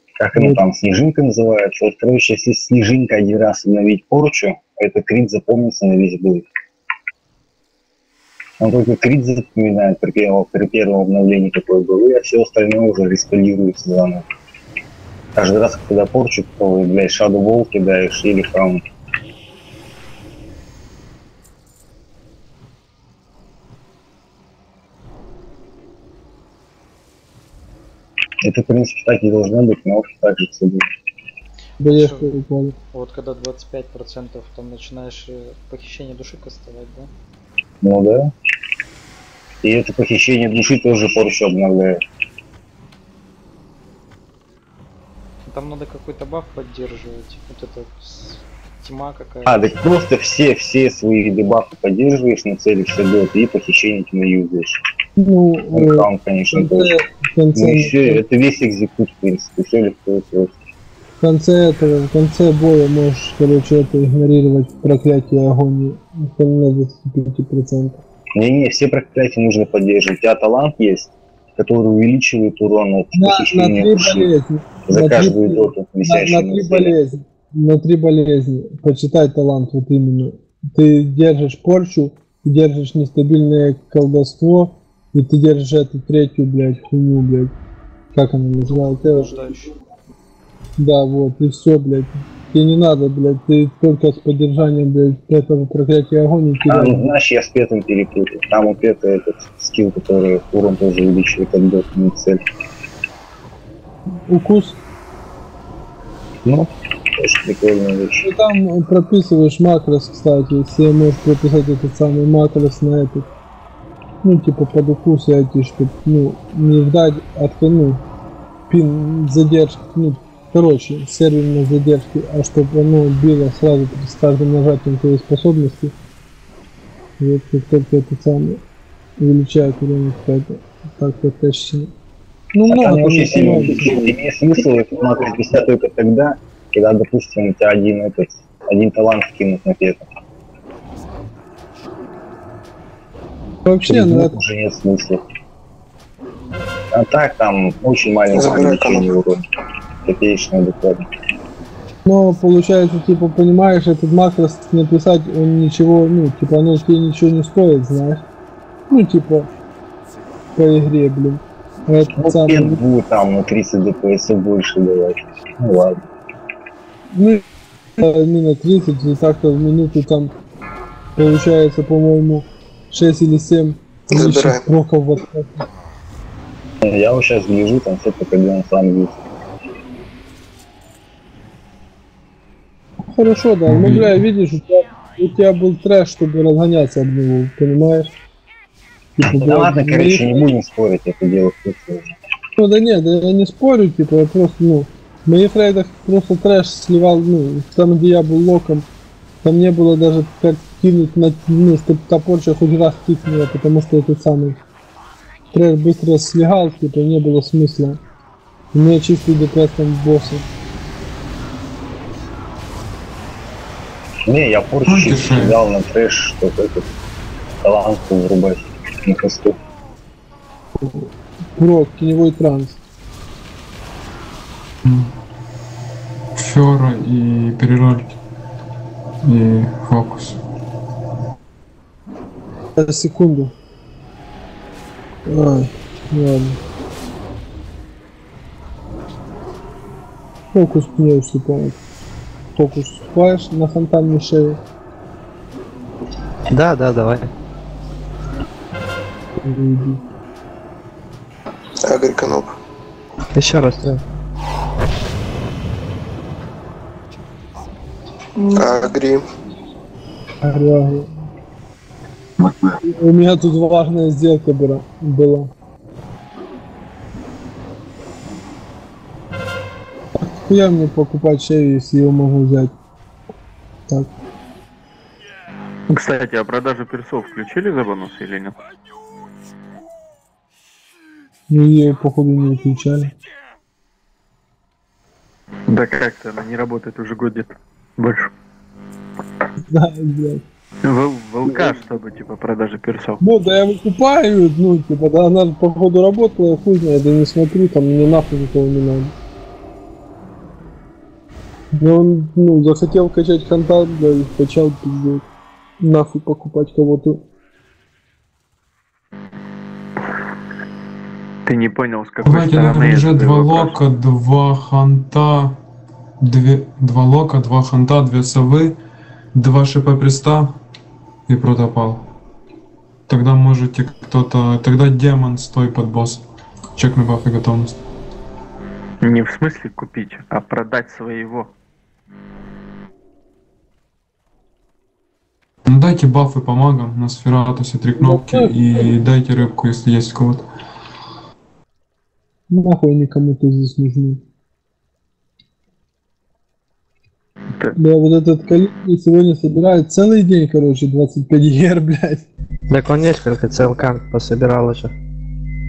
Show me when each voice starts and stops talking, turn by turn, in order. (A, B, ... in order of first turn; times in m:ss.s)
0:00.2-0:06.5 A
0:00.3-0:00.6 B
0:08.6-0:14.2 A
0:15.3-0:18.8 A
0:28.4-0:30.8 A
0:31.8-0:32.8 B
0:31.9-0:32.3 C
0:32.9-0:37.1 C
0:37.8-0:38.3 A
0:39.6-0:41.9 A
0:45.5-0:49.7 C
0:49.4-0:54.8 A
0:55.2-0:58.2 B
0:55.7-0:57.0 A
0:57.5-1:00.5 A
1:01.2-1:08.0 B
1:08.4-1:16.9 A
1:13.1-1:27.5 B
1:28.1-1:29.4 B
1:28.6-1:29.7 C
1:30.8-1:37.0 B
1:36.6-1:42.4 A
1:44.3-1:44.8 B
1:46.4-1:48.3 A
1:48.2-1:53.3 B
1:54.2-1:58.0 B
1:58.7-2:05.9 B
2:07.2-2:08.6 B
2:09.2-2:11.9 B
2:12.5-2:14.2 B
2:12.7-2:20.0 A
2:23.6-2:24.3 B
2:23.8-2:25.2 A
2:26.9-2:29.4 A
2:28.3-2:29.1 D
2:30.0-2:31.0 A
2:32.0-2:38.2 B
2:38.9-2:39.5 B
2:40.5-2:42.8 B
2:42.1-2:46.0 A
2:47.1-2:47.4 B
2:48.0-2:50.3 B
2:51.2-2:55.6 B
2:54.1-2:54.6 D
2:56.8-2:59.2 A
3:03.1-3:08.1 B
3:03.7-3:04.2 E
3:09.2-3:10.5 B
3:09.2-3:12.1 A
3:12.6-3:18.9 B
3:19.4-3:24.6 B
3:25.5-3:28.0 B
3:28.7-3:30.4 B
3:34.3-3:36.9 A
3:34.9-3:35.6 E
3:37.6-3:39.6 A
3:40.8-3:42.8 B
3:44.8-3:45.1 E
3:46.4-3:48.1 E
3:49.2-3:50.4 E
3:52.8-3:53.5 B
3:55.2-3:56.6 B
4:00.5-4:01.8 B
4:02.6-4:04.6 B
4:06.5-4:07.3 F
4:09.4-4:10.0 B
4:11.8-4:12.5 D
4:13.3-4:13.9 F
4:18.4-4:19.2 D
4:20.4-4:21.1 B
4:22.8-4:25.5 B
4:30.2-4:32.7 B
4:35.9-4:38.6 G
4:41.5-4:43.1 B
4:45.7-4:48.3 G
4:49.7-4:50.4 B
4:50.8-4:53.2 G
4:53.2-4:59.1 B
5:01.7-5:05.2 B
5:05.8-5:07.2 B
5:11.4-5:13.7 G
5:12.2-5:15.6 E
5:16.2-5:18.8 E
5:19.3-5:20.6 E
5:21.3-5:22.0 E
5:23.1-5:26.2 E
5:26.8-5:27.8 E
5:29.0-5:31.5 G
5:35.6-5:40.4 E
5:38.0-5:38.9 B
5:42.5-5:44.2 B
5:47.8-5:52.2 B
5:52.7-5:54.9 F